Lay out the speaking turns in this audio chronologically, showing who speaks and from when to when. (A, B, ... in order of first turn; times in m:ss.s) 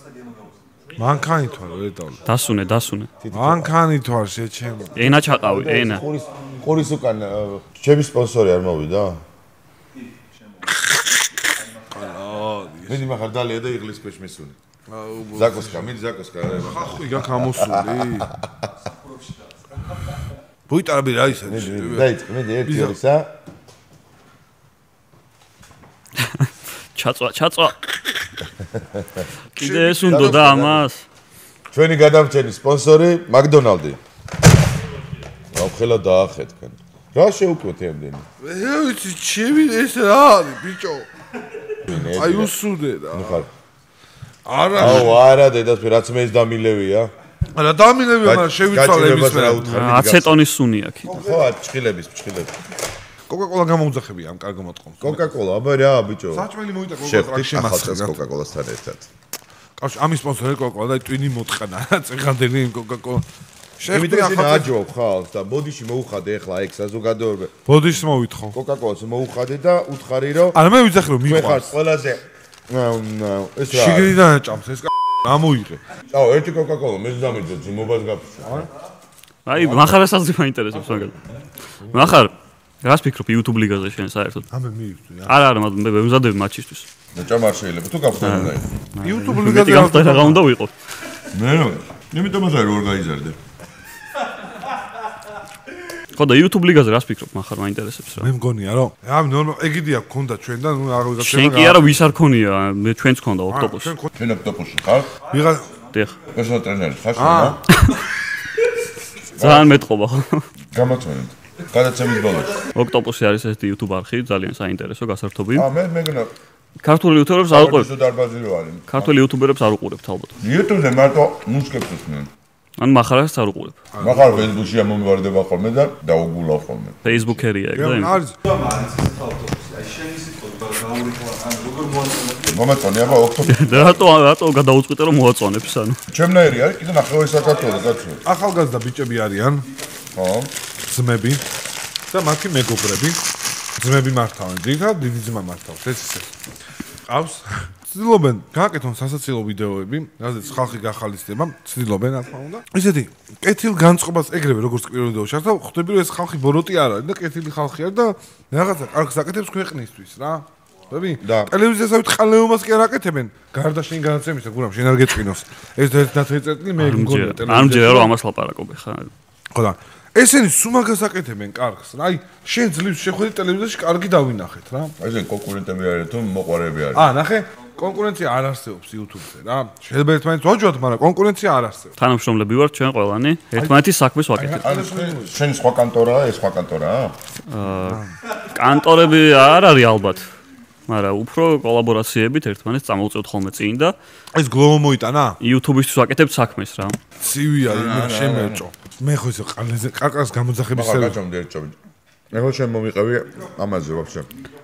0:01.0-0:02.2 A
0:02.2-0:03.1 B
0:03.2-0:03.7 C
0:03.3-0:05.0 A
0:05.0-0:06.0 B
0:05.0-0:09.2 C
0:10.7-0:13.0 A
0:12.9-0:14.6 C
0:14.9-0:15.9 A
0:15.3-0:18.6 C
0:16.6-0:18.3 A
0:20.7-0:22.1 A
0:21.4-0:23.3 C
0:22.6-0:23.0 A
0:26.2-0:27.8 B
0:28.7-0:29.3 C
0:29.6-0:31.0 B
0:29.6-0:30.6 A
0:30.1-0:30.8 C
0:31.7-0:34.0 C
0:35.5-0:38.3 C
0:38.4-0:41.1 A
0:41.9-0:42.5 C
0:41.9-0:43.4 A
0:43.1-0:43.5 C
0:44.5-0:45.2 A
0:44.8-0:47.1 C
0:47.6-0:49.6 A
0:48.2-0:50.4 C
0:49.6-0:51.1 B
0:51.1-0:52.5 C
0:51.1-0:51.4 A
0:53.3-0:55.2 A
0:55.0-0:56.5 C
0:56.3-0:58.2 A
0:57.0-0:59.1 C
0:59.8-1:03.3 A
1:03.8-1:04.7 A
1:03.9-1:07.6 C
1:07.7-1:08.6 A
1:08.5-1:10.6 C
1:10.5-1:11.7 A
1:11.2-1:14.2 C
1:13.7-1:15.8 A
1:16.1-1:18.7 C
1:19.5-1:21.2 B
1:19.6-1:19.9 A
1:20.8-1:21.1 A
1:21.8-1:22.2 A
1:21.9-1:24.5 B
1:24.5-1:25.4 A
1:25.3-1:26.9 B
1:27.2-1:28.7 C
1:28.2-1:30.7 B
1:29.0-1:30.4 A
1:31.3-1:33.4 C
1:36.1-1:38.3 B
1:38.2-1:42.0 A
1:41.2-1:44.0 B
1:43.5-1:44.1 A
1:44.1-1:45.1 C
1:45.3-1:45.7 A
1:45.9-1:46.2 B
1:46.3-1:47.6 C
1:47.2-1:47.6 A
1:47.7-1:48.0 B
1:49.4-1:50.5 B
1:49.4-1:49.8 C
1:50.7-1:52.6 C
1:52.8-1:55.7 B
1:55.6-1:56.3 C
1:56.8-1:57.9 B
1:57.5-1:59.2 C
1:58.9-2:00.4 B
2:00.4-2:02.3 C
2:02.8-2:03.8 B
2:03.9-2:04.5 A
2:04.0-2:07.4 C
2:07.0-2:08.2 B
2:07.8-2:08.4 A
2:12.2-2:14.0 C
2:13.5-2:16.0 B
2:16.1-2:18.2 C
2:18.2-2:19.7 A
2:20.1-2:20.5 C
2:20.8-2:21.4 A
2:22.1-2:23.2 A
2:23.8-2:26.3 A
2:27.1-2:48.1 A
2:41.2-2:41.5 C
2:46.8-2:49.1 B
2:49.5-2:55.0 A
2:55.0-2:57.1 C
2:56.9-3:01.9 A
3:02.0-3:04.6 B
3:04.4-3:05.3 A
3:04.6-3:07.2 C
3:07.5-3:10.3 B
3:07.8-3:08.1 A
3:10.9-3:14.0 B
3:14.3-3:15.4 A
3:15.4-3:17.0 B
3:17.2-3:21.2 A
3:17.6-3:18.7 C
3:20.7-3:21.8 C
3:22.3-3:24.3 C